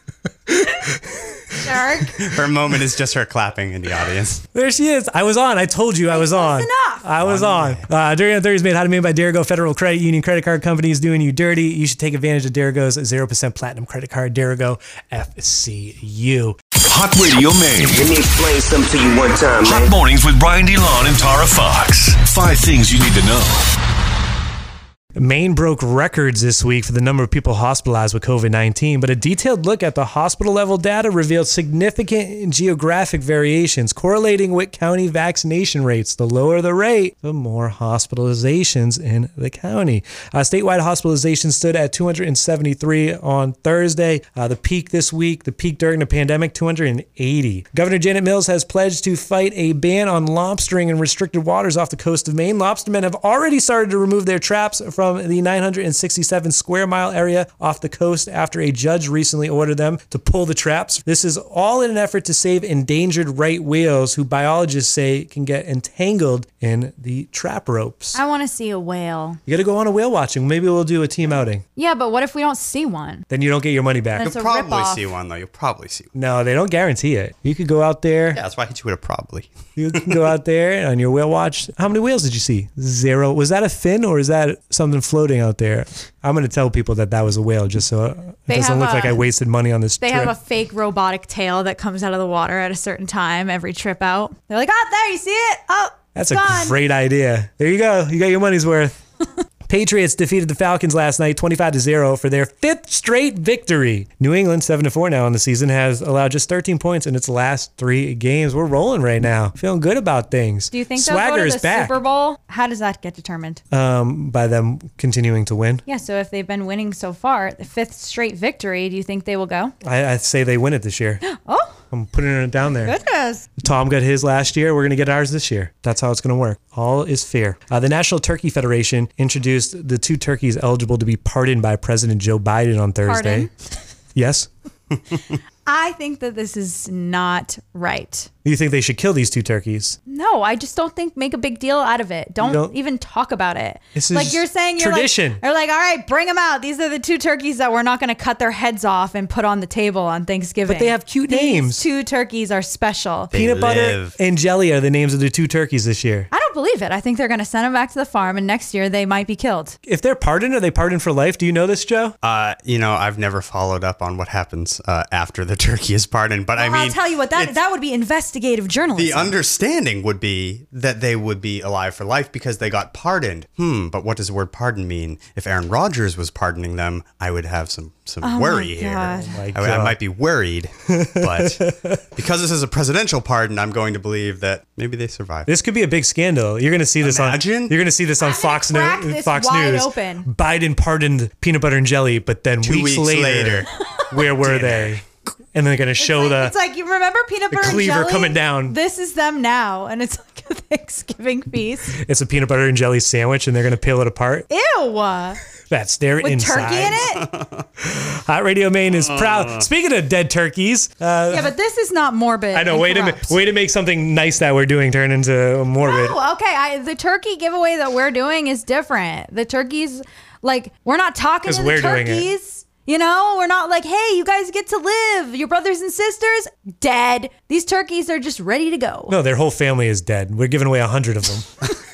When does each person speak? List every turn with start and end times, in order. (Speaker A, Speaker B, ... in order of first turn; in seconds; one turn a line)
Speaker A: 0.5-1.6
Speaker B: 1.6-2.2
Speaker C: 2.2-4.4
Speaker A: 4.5-16.6
Speaker B: 6.1-7.1
Speaker C: 7.2-7.9
Speaker D: 16.9-18.1
Speaker E: 17.9-19.9
Speaker D: 19.6-23.7
Speaker A: 25.2-68.2
Speaker B: 68.1-69.4
Speaker A: 69.5-71.6
Speaker B: 71.8-73.2
Speaker A: 73.3-74.3
Speaker B: 74.2-75.0
Speaker C: 74.2-76.1
Speaker A: 76.1-78.4
Speaker C: 78.3-80.1
Speaker A: 79.8-90.3
Speaker B: 88.5-89.2
Speaker B: 90.0-96.8
Speaker A: 96.2-99.0
Speaker A: 99.7-111.9
Speaker B: 110.7-113.6
Speaker A: 113.7-115.8
Speaker B: 115.9-119.7
Speaker A: 119.8-121.2
Speaker B: 121.2-121.8
Speaker A: 121.9-123.0
Speaker B: 122.8-123.5
Speaker A: 123.6-133.5
Speaker B: 133.1-133.5
Speaker A: 134.2-134.5
Speaker B: 135.7-138.3
Speaker A: 138.4-140.0
Speaker B: 140.1-153.3
Speaker A: 142.4-142.8
Speaker A: 143.9-145.4
Speaker A: 150.7-151.8
Speaker C: 153.3-154.2
Speaker A: 153.3-156.3
Speaker B: 156.3-159.8
Speaker A: 159.9-162.2
Speaker C: 162.2-167.5
Speaker B: 166.6-169.3
Speaker C: 169.0-181.6
Speaker B: 178.2-179.4
Speaker A: 179.2-180.0
Speaker A: 180.9-182.0
Speaker C: 182.2-185.5
Speaker A: 185.5-195.0
Speaker C: 187.0-187.8
Speaker B: 188.2-190.3
Speaker C: 192.6-193.7
Speaker C: 194.4-195.0
Speaker A: 195.5-196.5
Speaker B: 196.0-202.0
Speaker A: 197.5-198.8
Speaker A: 202.0-204.5
Speaker B: 204.5-205.4
Speaker A: 205.7-207.2
Speaker B: 206.2-207.3
Speaker A: 207.8-211.5
Speaker C: 209.0-209.6
Speaker B: 211.3-213.4
Speaker A: 212.5-216.2
Speaker B: 215.8-229.2
Speaker A: 221.4-222.3
Speaker A: 229.1-231.7